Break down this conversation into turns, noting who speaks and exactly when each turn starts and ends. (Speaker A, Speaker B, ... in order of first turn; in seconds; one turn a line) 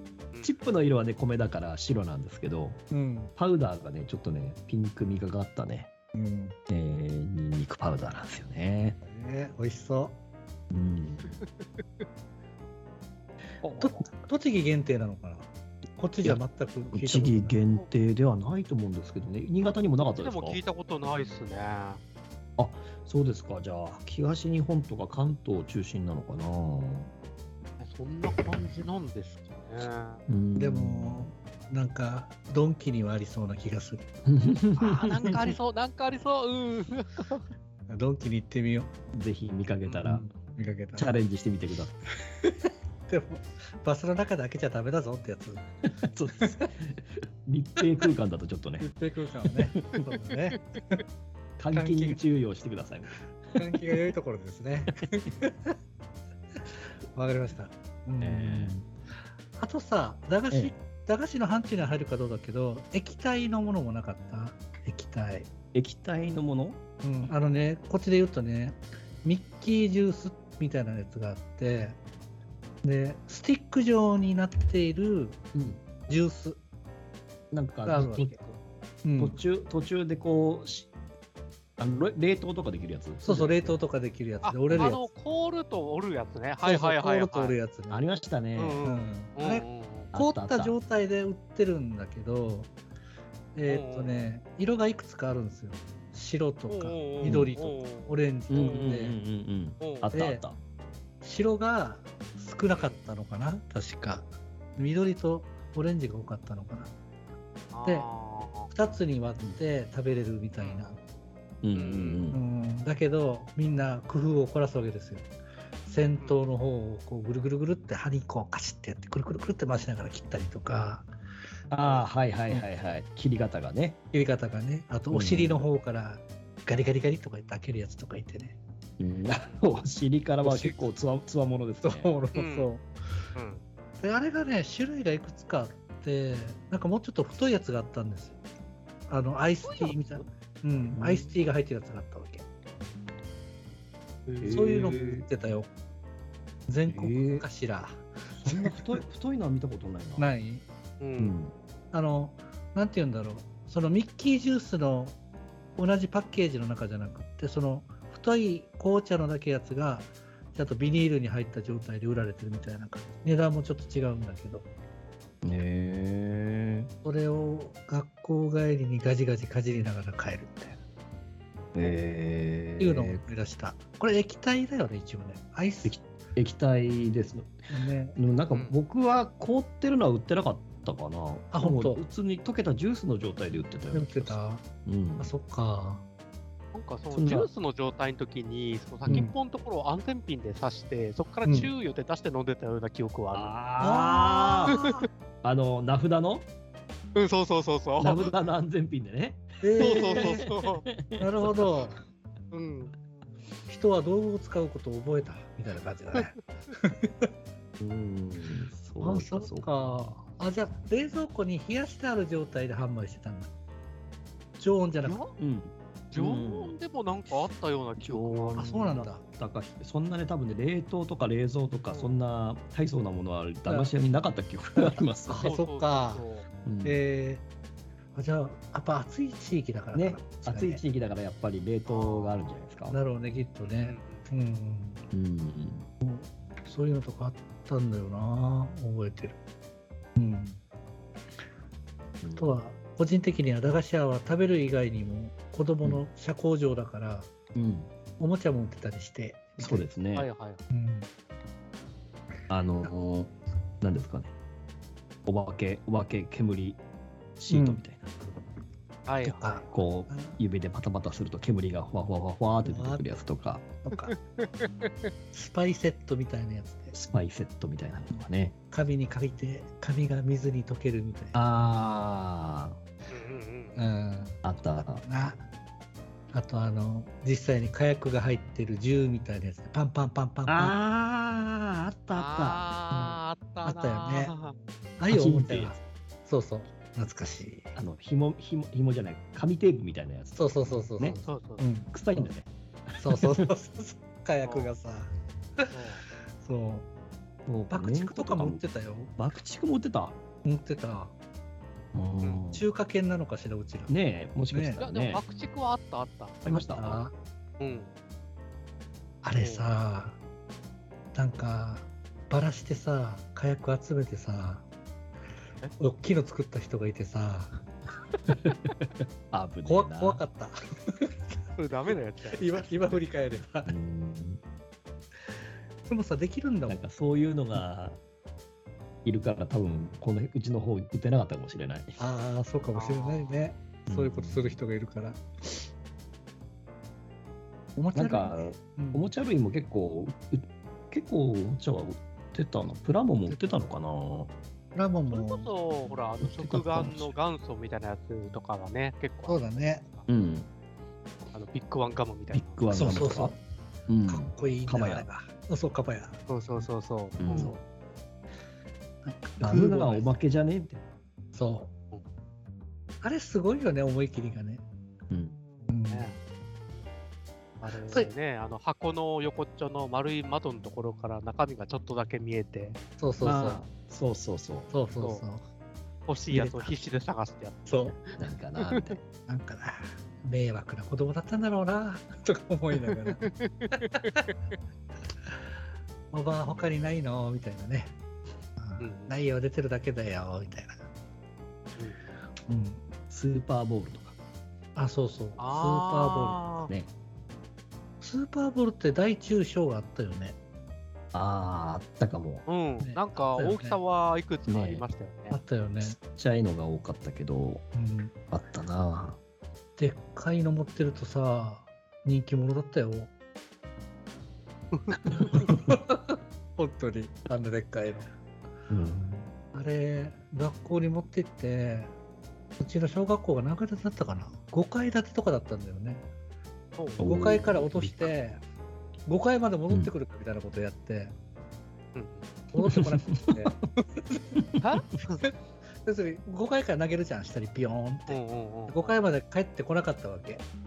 Speaker A: 0.4-2.8
Speaker B: 2.9-3.3
Speaker A: 3.4-5.9
Speaker B: 6.1-6.6
Speaker A: 6.7-9.0
Speaker B: 9.0-10.2
Speaker A: 10.7-11.4
Speaker C: 11.3-12.0
Speaker C: 13.6-13.9
Speaker B: 13.8-17.6
Speaker A: 16.2-20.6
Speaker C: 20.0-22.0
Speaker A: 22.6-27.1
Speaker C: 27.8-30.2
Speaker A: 30.3-31.3
Speaker B: 30.6-34.1
Speaker A: 34.3-35.0
Speaker C: 34.8-37.4
Speaker B: 35.0-35.6
Speaker B: 37.9-38.9
Speaker A: 39.1-40.3
Speaker B: 40.0-41.2
Speaker A: 41.0-42.0
Speaker B: 42.3-42.5
Speaker B: 43.1-45.6
Speaker A: 45.9-48.9
Speaker B: 46.4-46.6
Speaker B: 48.8-51.0
Speaker A: 51.6-53.6
Speaker B: 51.7-52.2
Speaker B: 53.5-55.8
Speaker B: 57.1-58.8
Speaker A: 58.2-58.9
Speaker B: 59.6-65.5
Speaker A: 65.7-66.8
Speaker B: 67.0-72.0
Speaker B: 72.8-75.4
Speaker A: 75.5-75.8
Speaker B: 76.1-76.6
Speaker A: 77.5-78.4
Speaker B: 77.8-78.4
Speaker B: 79.0-79.4
Speaker A: 79.2-80.9
Speaker A: 81.8-83.8
Speaker B: 83.2-85.1
Speaker C: 84.4-87.6
Speaker B: 86.6-88.1
Speaker A: 87.9-88.8
Speaker C: 88.6-90.1
Speaker B: 88.8-92.7
Speaker A: 90.1-90.8
Speaker B: 93.5-99.2
Speaker C: 93.7-94.3
Speaker C: 96.7-98.9
Speaker A: 97.2-97.5
Speaker A: 98.5-100.6
Speaker C: 99.8-100.1
Speaker B: 100.1-100.5
Speaker B: 101.2-106.9
Speaker C: 102.7-103.0
Speaker C: 107.7-108.7
Speaker B: 108.7-111.0
Speaker C: 110.6-110.9
Speaker A: 111.6-112.4
Speaker C: 111.8-112.2
Speaker B: 112.3-115.3
Speaker B: 115.9-121.1
Speaker A: 121.7-124.0
Speaker C: 121.8-122.1
Speaker B: 124.1-128.6
Speaker A: 125.1-125.7
Speaker A: 129.0-132.1
Speaker C: 129.4-129.8
Speaker B: 130.4-131.0
Speaker B: 131.8-132.9
Speaker C: 132.3-132.7
Speaker C: 133.3-133.6
Speaker B: 134.0-138.4
Speaker B: 139.1-142.5
Speaker C: 139.6-140.2
Speaker A: 140.9-141.4
Speaker C: 144.3-145.1
Speaker A: 144.4-145.3
Speaker B: 144.5-145.7
Speaker B: 146.7-149.0
Speaker A: 146.9-147.5
Speaker A: 148.4-150.3
Speaker B: 150.2-150.7
Speaker C: 151.0-151.3
Speaker A: 151.2-151.5
Speaker B: 151.9-155.2
Speaker B: 155.8-164.7
Speaker A: 165.4-166.9
Speaker B: 167.0-170.8
Speaker A: 171.8-173.2
Speaker B: 172.8-176.0
Speaker A: 175.8-177.6
Speaker B: 177.7-178.2
Speaker A: 178.2-185.3
Speaker C: 178.5-178.8
Speaker B: 181.5-182.0
Speaker B: 183.9-184.7
Speaker B: 185.2-186.0
Speaker C: 186.7-193.6
Speaker A: 187.1-187.5
Speaker B: 189.1-189.3
Speaker B: 191.4-191.7
Speaker A: 193.3-196.5
Speaker B: 193.8-194.8
Speaker C: 194.7-194.9
Speaker C: 197.2-198.3
Speaker A: 198.0-201.7
Speaker B: 199.6-200.5
Speaker C: 199.8-200.9
Speaker B: 201.1-202.0
Speaker C: 202.5-202.9
Speaker B: 203.7-207.3
Speaker A: 207.8-209.7
Speaker B: 209.0-213.5
Speaker B: 214.6-215.2
Speaker C: 215.0-215.4
Speaker A: 215.4-216.8
Speaker C: 216.1-219.0
Speaker A: 218.0-225.5
Speaker B: 218.6-219.2
Speaker C: 221.9-222.2
Speaker B: 223.7-224.0
Speaker B: 224.7-226.3
Speaker C: 225.4-226.5
Speaker A: 226.7-227.0
Speaker B: 226.8-227.4
Speaker B: 228.1-230.8
Speaker A: 229.9-233.0
Speaker C: 231.9-232.6
Speaker B: 232.9-235.0
Speaker C: 233.7-234.3
Speaker A: 235.1-235.9
Speaker B: 236.0-239.4
Speaker B: 240.2-240.6
Speaker A: 242.2-242.6
Speaker B: 242.3-247.3
Speaker A: 247.6-247.9
Speaker B: 248.2-249.9
Speaker A: 249.6-250.3
Speaker C: 250.2-250.6
Speaker B: 250.7-251.1
Speaker A: 252.5-254.3
Speaker A: 255.3-256.8
Speaker A: 257.4-258.1
Speaker B: 257.5-257.9
Speaker C: 259.1-259.8
Speaker B: 259.2-260.4
Speaker A: 259.7-263.6
Speaker B: 262.6-263.1
Speaker B: 263.8-264.1
Speaker C: 264.0-265.1
Speaker B: 265.3-266.9
Speaker A: 266.9-268.6
Speaker B: 268.7-271.4
Speaker A: 271.3-272.8
Speaker C: 273.1-273.9
Speaker B: 273.8-275.4
Speaker A: 274.4-275.0
Speaker B: 276.3-280.8
Speaker A: 280.5-282.6
Speaker C: 282.1-284.5
Speaker B: 282.9-284.4
Speaker B: 285.0-287.7
Speaker A: 285.1-285.8
Speaker A: 287.8-291.2
Speaker B: 290.4-292.3
Speaker C: 291.2-291.7
Speaker A: 291.9-293.5
Speaker B: 293.0-295.7
Speaker C: 294.4-294.7
Speaker C: 295.7-296.1
Speaker B: 296.3-296.9
Speaker A: 297.5-298.6
Speaker B: 297.7-299.1
Speaker A: 299.2-300.2
Speaker B: 300.4-301.1
Speaker A: 301.9-302.7
Speaker B: 302.5-304.0
Speaker A: 303.9-305.2
Speaker B: 304.5-304.8
Speaker C: 304.8-307.0
Speaker A: 306.4-307.0
Speaker B: 306.5-307.1
Speaker C: 307.6-307.9
Speaker B: 309.2-310.2
Speaker C: 309.4-309.7
Speaker B: 311.1-314.7
Speaker B: 315.8-317.6
Speaker A: 318.3-320.2
Speaker B: 319.6-321.1
Speaker C: 321.6-322.9
Speaker B: 322.3-323.8
Speaker A: 323.7-324.4
Speaker B: 325.9-326.9
Speaker A: 326.7-328.0
Speaker A: 329.1-332.0
Speaker B: 332.0-335.7
Speaker C: 332.8-333.5
Speaker A: 333.9-334.6
Speaker B: 337.8-339.1
Speaker A: 337.9-344.3
Speaker B: 343.3-343.6
Speaker B: 344.7-345.5
Speaker C: 345.1-350.1
Speaker A: 346.2-347.1
Speaker B: 349.3-349.9
Speaker A: 350.1-350.5
Speaker C: 351.3-352.9
Speaker A: 352.3-353.4
Speaker B: 352.7-353.4
Speaker A: 353.9-355.1
Speaker B: 354.1-356.2
Speaker C: 356.3-357.6
Speaker A: 357.2-357.6
Speaker B: 359.0-360.2
Speaker A: 359.4-360.8
Speaker B: 361.3-361.7
Speaker B: 363.0-364.6
Speaker A: 365.1-365.4
Speaker B: 365.7-366.1
Speaker C: 365.9-366.2
Speaker C: 367.6-372.8
Speaker B: 373.0-373.6
Speaker A: 373.2-374.7
Speaker B: 374.7-375.4
Speaker C: 375.0-375.2
Speaker C: 376.1-378.1
Speaker B: 376.3-376.8
Speaker B: 377.7-378.1
Speaker A: 378.2-379.0
Speaker B: 379.3-383.3
Speaker C: 382.7-384.3
Speaker B: 383.9-384.3
Speaker B: 386.1-388.0
Speaker B: 388.6-390.9
Speaker C: 388.8-389.2
Speaker C: 391.8-392.0
Speaker B: 392.5-392.8
Speaker A: 393.1-394.2
Speaker B: 394.8-396.4
Speaker C: 395.4-396.7
Speaker B: 398.0-400.4
Speaker A: 401.1-402.4
Speaker C: 402.5-405.4
Speaker B: 402.8-403.8
Speaker A: 404.5-404.9
Speaker B: 405.3-406.0
Speaker A: 405.8-407.6
Speaker B: 407.7-408.1
Speaker A: 408.3-409.2
Speaker B: 409.8-413.1
Speaker C: 414.7-415.5
Speaker B: 415.1-418.1
Speaker A: 418.7-419.3
Speaker B: 419.5-421.9
Speaker B: 422.6-426.1
Speaker C: 426.8-427.0
Speaker A: 427.0-428.1
Speaker B: 427.0-428.4
Speaker B: 429.1-431.1
Speaker C: 431.9-432.3
Speaker B: 432.5-434.4
Speaker A: 432.7-433.5
Speaker C: 434.6-435.3
Speaker B: 435.8-440.5
Speaker C: 438.1-439.0